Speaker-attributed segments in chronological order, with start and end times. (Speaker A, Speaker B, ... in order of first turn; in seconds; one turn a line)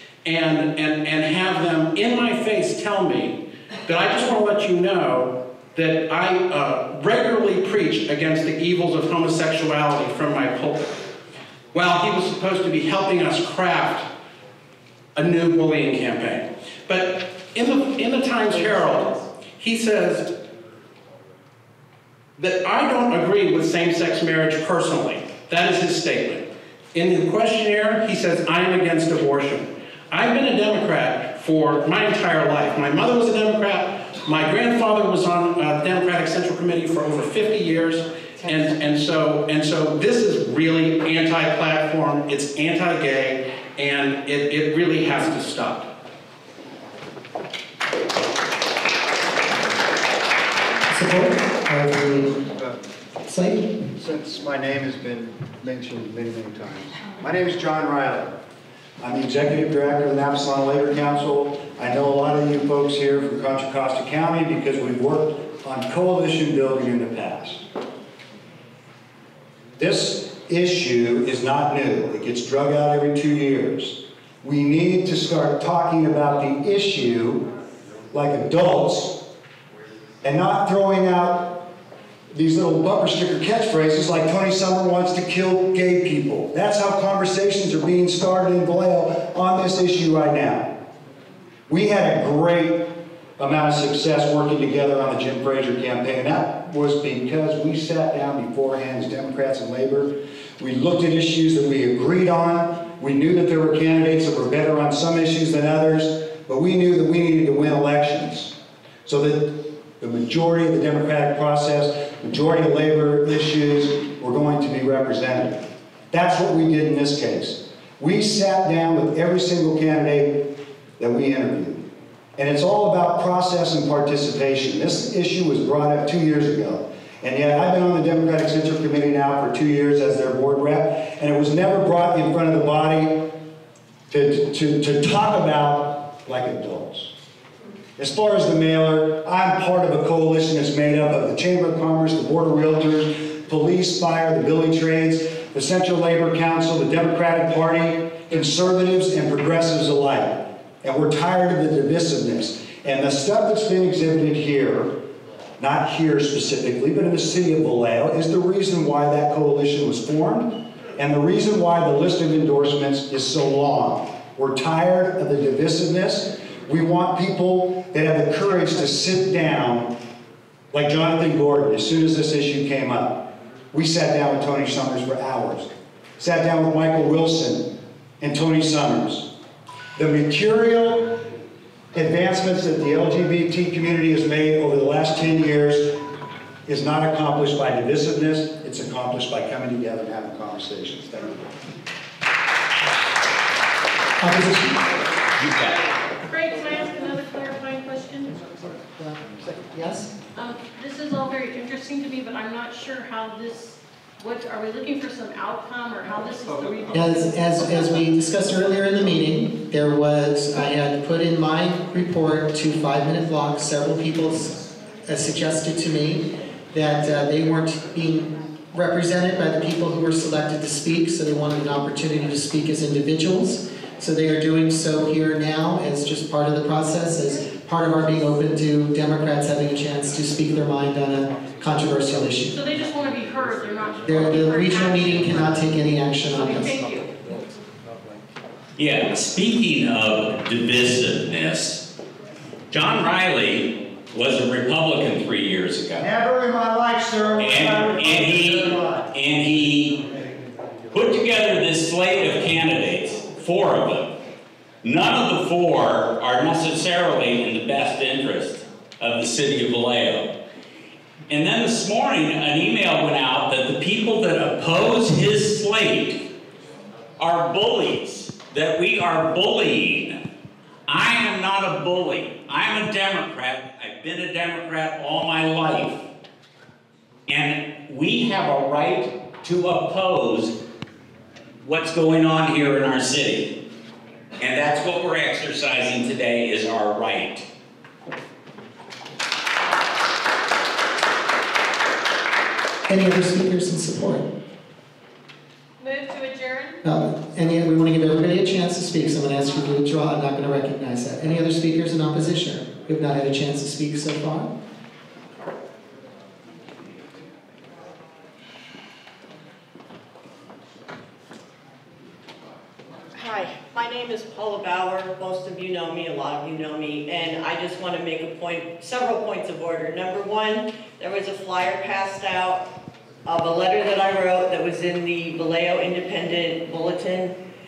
Speaker A: 0.2-10.9
Speaker A: 11.7-14.1
Speaker A: 15.1-20.3
Speaker A: 22.4-45.9
Speaker B: 50.9-52.4
Speaker B: 53.2-53.7
Speaker C: 54.0-58.3
Speaker C: 59.0-67.6
Speaker C: 69.8-77.5
Speaker C: 78.1-79.2
Speaker C: 80.2-81.7
Speaker C: 82.3-90.8
Speaker C: 91.7-108.5
Speaker C: 109.0-121.8
Speaker C: 122.4-133.3
Speaker C: 134.1-137.1
Speaker C: 138.0-154.9
Speaker C: 155.6-169.9
Speaker C: 170.7-179.3
Speaker C: 179.9-181.1
Speaker C: 181.9-186.0
Speaker C: 186.7-191.4
Speaker B: 194.2-194.8
Speaker D: 195.4-195.8
Speaker E: 196.3-198.6
Speaker B: 199.0-200.1
Speaker E: 200.3-207.3
Speaker B: 206.9-232.6
Speaker E: 232.5-235.6
Speaker B: 234.0-236.8
Speaker E: 236.3-237.1
Speaker D: 238.8-241.8
Speaker D: 242.7-246.1
Speaker C: 246.0-249.1
Speaker D: 247.4-250.0
Speaker D: 250.9-254.1
Speaker D: 254.8-260.3
Speaker D: 261.3-266.2
Speaker D: 267.2-270.2
Speaker D: 270.9-276.0
Speaker D: 277.3-280.6
Speaker D: 281.6-283.5
Speaker D: 284.4-287.4
Speaker B: 292.9-294.3
Speaker E: 295.8-296.8
Speaker B: 296.8-304.5
Speaker F: 313.2-322.7
Speaker F: 323.2-327.4